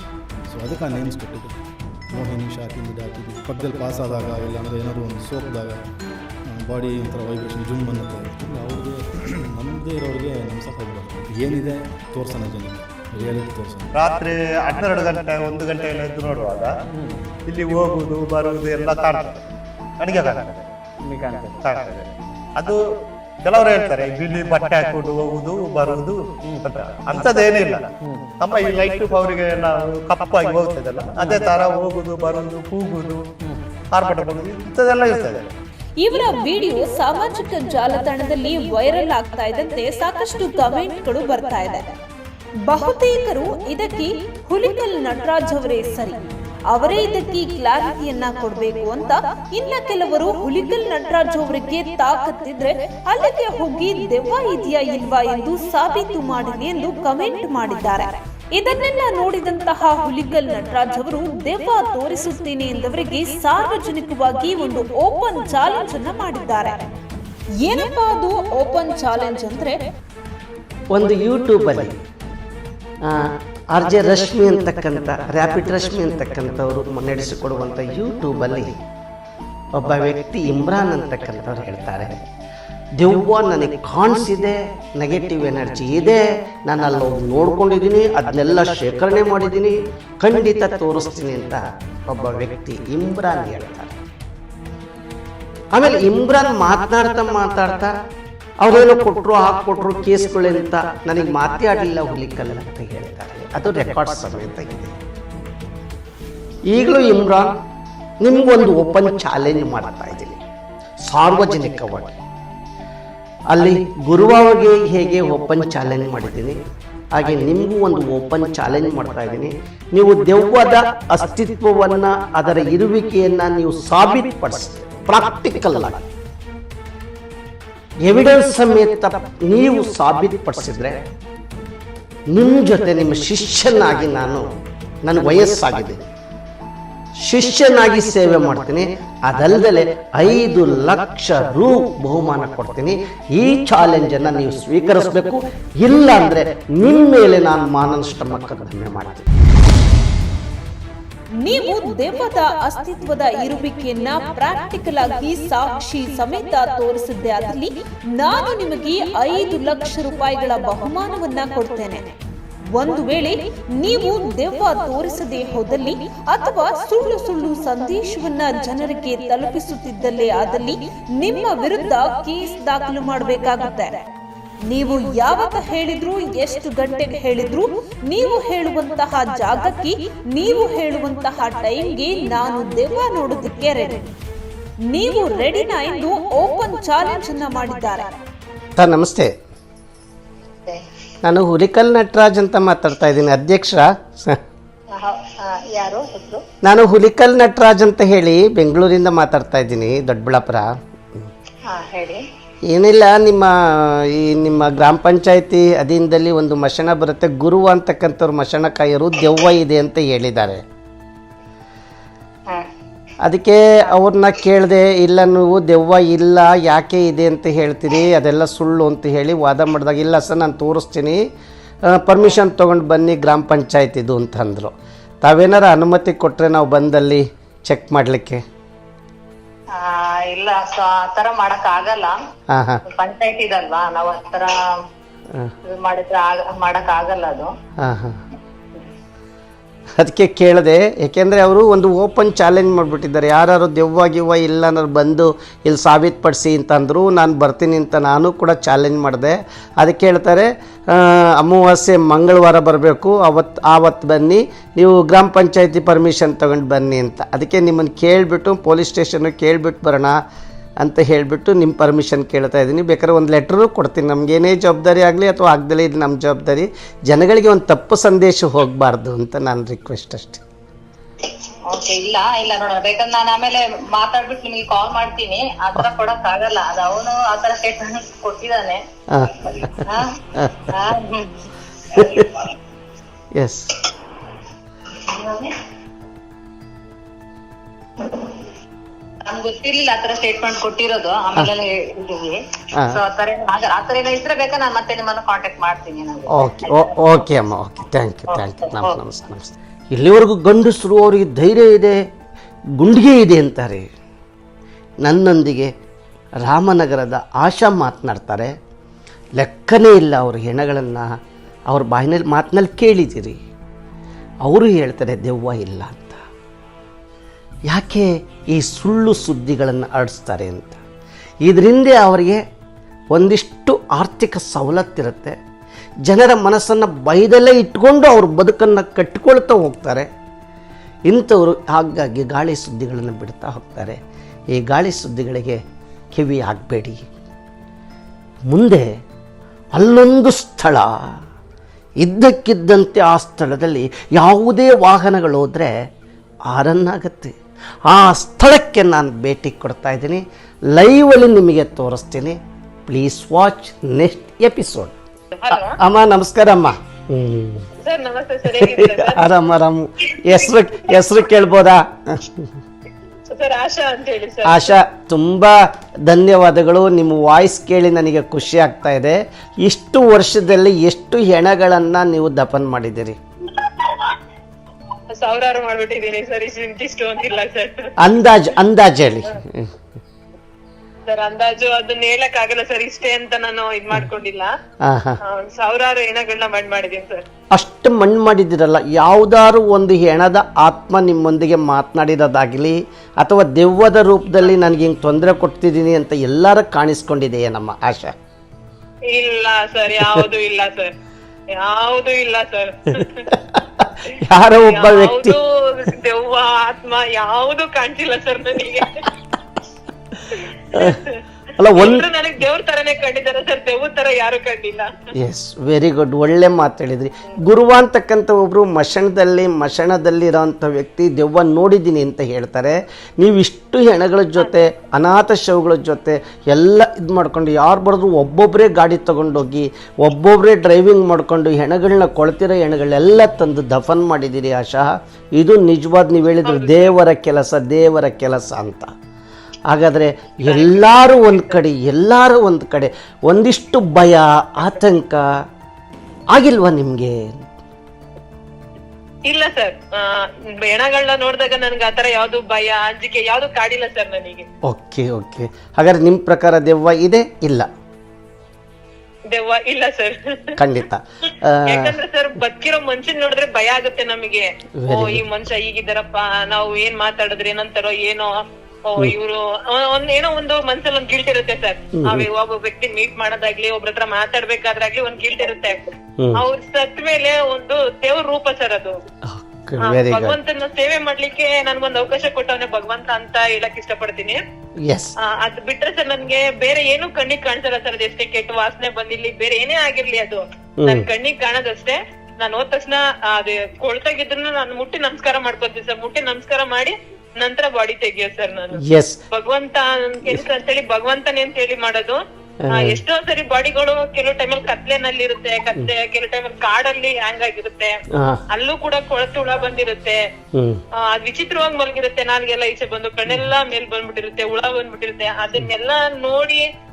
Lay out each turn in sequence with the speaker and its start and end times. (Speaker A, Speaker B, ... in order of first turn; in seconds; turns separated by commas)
Speaker A: 0.5-5.9, Speaker A: 6.5-14.1, Speaker B: 13.9-16.7, Speaker B: 17.5-19.4, Speaker B: 20.0-20.6, Speaker B: 21.6-22.8, Speaker B: 23.4-33.3, Speaker B: 33.9-35.5, Speaker C: 36.0-42.0, Speaker C: 42.6-66.9, Speaker C: 67.6-69.8, Speaker D: 70.9-72.0, Speaker D: 73.0-78.8, Speaker D: 79.8-82.2, Speaker D: 83.0-94.0, Speaker D: 95.7-97.9, Speaker D: 98.6-104.9, Speaker D: 106.7-107.6, Speaker D: 108.2-110.4, Speaker D: 111.0-112.2, Speaker D: 113.5-116.6, Speaker D: 117.2-126.1, Speaker D: 128.0-131.1, Speaker D: 132.3-136.0, Speaker D: 137.2-149.3, Speaker C: 151.4-162.2, Speaker C: 162.7-174.0, Speaker C: 174.7-184.1, Speaker C: 184.9-188.2, Speaker D: 188.8-189.3, Speaker D: 191.2-194.4, Speaker E: 194.9-196.4, Speaker D: 196.6-201.3, Speaker E: 201.7-202.2, Speaker D: 202.7-210.6, Speaker D: 213.2-221.2, Speaker D: 221.9-228.4, Speaker E: 229.7-232.2, Speaker D: 232.5-232.8, Speaker E: 232.9-234.5, Speaker E: 235.7-237.5, Speaker D: 237.8-238.2, Speaker D: 240.0-260.1, Speaker D: 260.8-270.4, Speaker E: 271.7-278.8, Speaker D: 279.1-280.7, Speaker E: 279.9-280.2, Speaker E: 280.7-281.3, Speaker D: 281.9-282.4, Speaker D: 283.4-283.8, Speaker E: 285.0-285.5, Speaker E: 288.0-288.4, Speaker E: 289.2-296.9, Speaker D: 296.3-302.0, Speaker E: 298.4-298.9, Speaker D: 302.8-303.9, Speaker D: 305.0-305.7, Speaker D: 306.4-308.5, Speaker D: 309.4-311.1, Speaker D: 311.7-313.4, Speaker D: 314.4-316.2, Speaker D: 317.7-320.8, Speaker D: 321.4-322.4, Speaker D: 323.1-325.4, Speaker D: 326.1-330.1, Speaker D: 331.1-334.0, Speaker D: 334.5-335.6, Speaker D: 336.1-337.1, Speaker D: 338.5-338.9, Speaker D: 339.8-341.1, Speaker D: 342.0-345.9, Speaker D: 346.5-347.3, Speaker D: 347.9-350.2, Speaker D: 350.7-354.9, Speaker F: 355.4-355.8, Speaker D: 355.5-357.7, Speaker F: 357.8-359.2, Speaker D: 358.5-362.5, Speaker F: 363.3-364.8, Speaker D: 364.5-373.2, Speaker F: 375.1-377.9, Speaker D: 378.0-379.7, Speaker F: 381.1-384.5, Speaker D: 384.8-385.2, Speaker F: 385.2-387.2, Speaker D: 387.5-398.1, Speaker F: 399.1-400.9, Speaker F: 401.6-403.3, Speaker D: 403.3-405.4, Speaker F: 404.0-409.1, Speaker F: 410.3-411.2, Speaker D: 410.7-411.0, Speaker D: 411.6-412.1, Speaker F: 411.8-414.9, Speaker D: 415.1-438.9, Speaker F: 436.5-437.0, Speaker D: 439.7-445.3, Speaker F: 440.5-441.5, Speaker D: 446.3-447.3, Speaker F: 449.3-454.5, Speaker D: 454.7-457.7, Speaker F: 459.3-460.6, Speaker D: 460.6-461.9, Speaker F: 461.7-468.3, Speaker D: 464.8-465.2, Speaker F: 468.9-475.8, Speaker D: 472.0-472.3, Speaker F: 476.4-478.9, Speaker D: 479.2-480.4, Speaker F: 479.8-484.4, Speaker D: 484.8-485.1, Speaker F: 485.2-502.2, Speaker D: 490.8-491.1, Speaker D: 498.8-499.2, Speaker D: 502.6-503.0, Speaker F: 502.7-507.9, Speaker D: 508.1-508.4, Speaker F: 508.5-510.2, Speaker D: 510.5-510.8, Speaker F: 511.1-516.6